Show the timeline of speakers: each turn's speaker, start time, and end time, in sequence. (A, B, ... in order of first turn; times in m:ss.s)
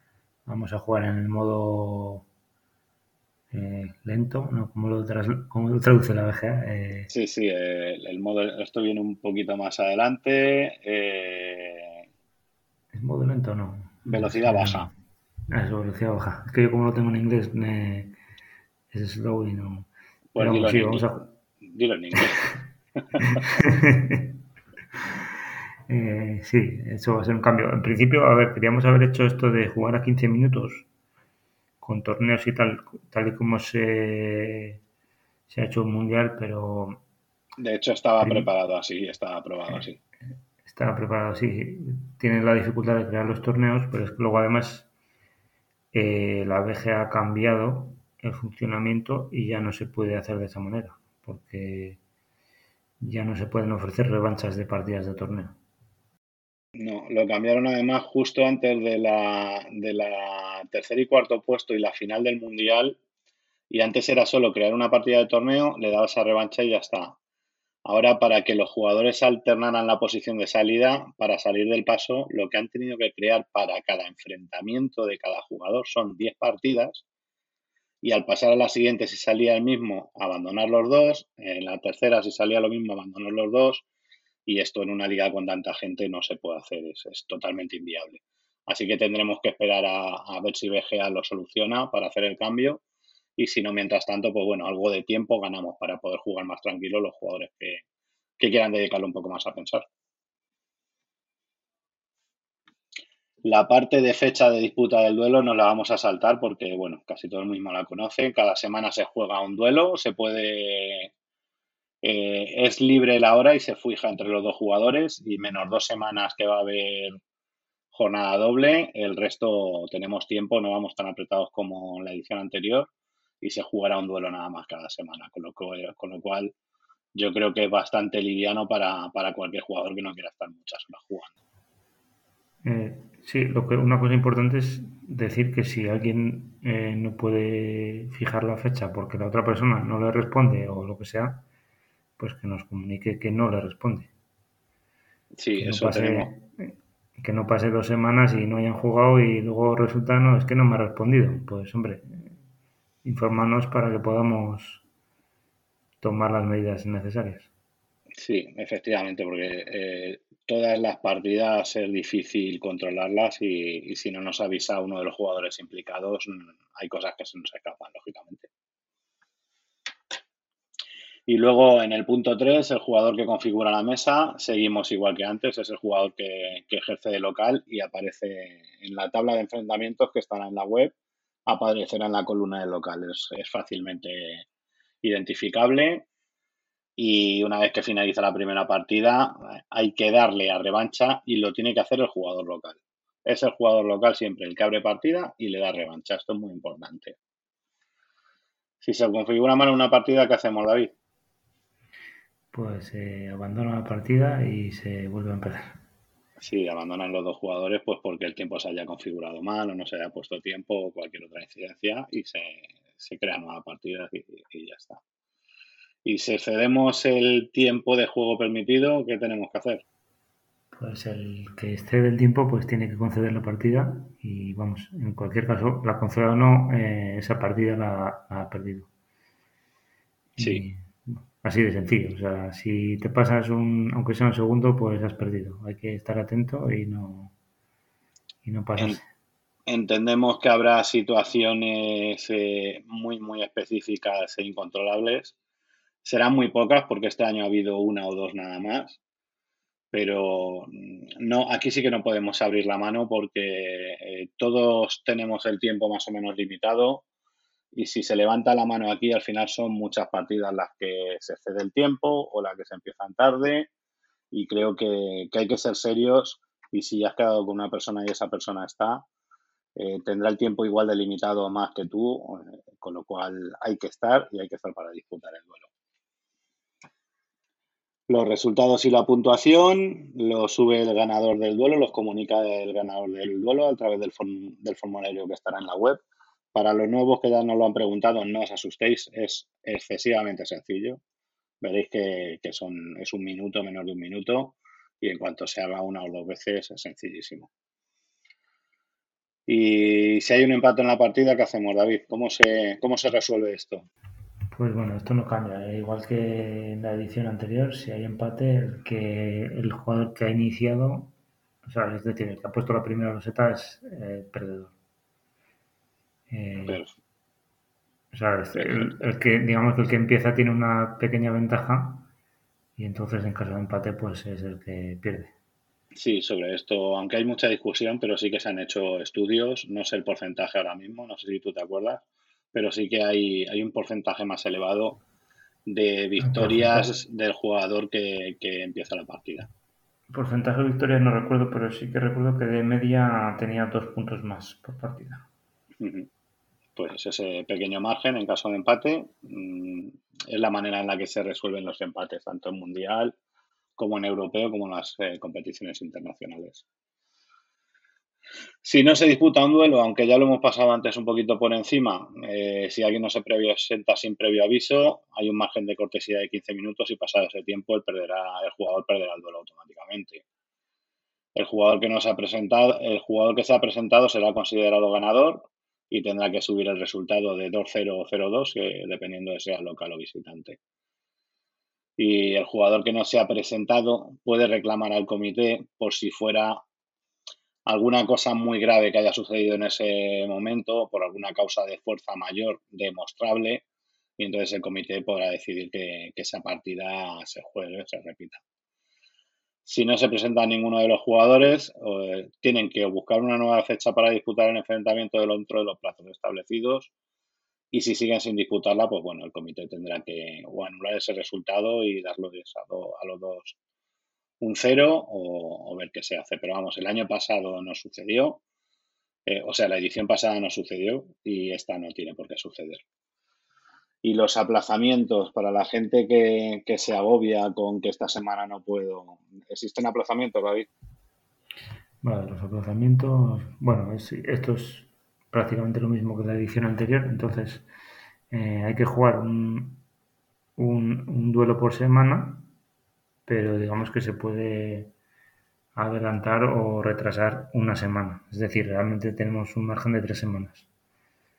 0:00.4-0:02.2 A
0:03.5-0:07.1 A
0:07.1-0:12.0 B
0:12.9-0:14.9 A
0:14.0-0:14.9 B
0:15.5-0:18.2 A
0:18.9-0:21.3 A
0:20.3-0:22.5 B
0:23.1-0:23.4 B
0:23.2-0:24.4 A
0:25.9-0:30.8 A
0:31.8-0:34.8 A
0:35.5-0:37.0 A
0:37.6-0:40.0 B
0:38.2-0:38.5 A
0:40.6-0:44.9 A
0:45.9-0:52.0 A
0:53.0-0:55.6 A
0:56.8-1:03.0 B
1:03.7-1:07.2 B
1:07.8-1:17.0 B
1:18.0-1:23.8 B
1:24.4-1:32.8 B
1:33.4-1:37.8 B
1:38.4-1:39.8 B
1:43.4-1:51.1 B
1:52.0-1:57.2 B
1:57.9-2:02.9 B
2:03.4-2:06.5 B
2:07.1-2:11.3 B
2:12.6-2:21.4 A
2:22.2-2:24.1 A
2:25.4-2:26.3 B
2:25.6-2:32.3 A
2:33.0-2:34.8 A
2:36.0-2:37.5 A
2:38.2-2:48.5 B
2:51.3-3:00.9 B
3:01.5-3:04.4 B
3:05.0-3:06.0 B
3:07.0-3:17.2 B
3:18.8-3:20.9 B
3:22.5-3:25.8 A
3:26.4-3:35.0 B
3:36.0-3:39.8 B
3:40.7-3:48.9 A
3:50.4-3:57.3 A
3:50.4-3:50.6 B
3:58.4-3:59.0 A
3:59.7-4:05.3 B
4:06.0-4:09.0 B
4:09.9-4:17.0 B
4:17.7-4:23.7 B
4:24.3-4:29.0 B
4:29.8-4:35.7 B
4:38.1-4:46.0 B
4:46.5-4:51.0 B
4:51.6-4:57.5 B
4:59.5-5:03.9 B
5:04.5-5:11.1 A
5:11.6-5:14.7 A
5:16.3-5:16.8 A
5:16.6-5:16.9 B
5:18.1-5:22.1 A
5:18.5-5:19.0 B
5:22.8-5:25.3 A
5:25.9-5:35.0 B
5:35.6-5:39.5 B
5:36.2-5:36.9 A
5:40.1-5:45.2 A
5:45.8-5:46.1 B
5:46.8-5:53.1 B
5:53.8-5:56.6 B
5:58.6-6:10.2 B
6:11.4-6:20.6 B
6:22.0-6:26.6 B
6:27.6-6:33.6 B
6:34.2-6:38.4 B
6:39.6-6:46.9 B
6:47.7-6:53.6 B
6:54.4-6:58.4 B
6:59.2-7:02.8 B
7:04.0-7:10.7 B
7:12.0-7:17.6 A
7:18.3-7:19.8 A
7:20.6-7:22.5 A
7:23.2-7:24.9 A
7:25.7-7:30.6 A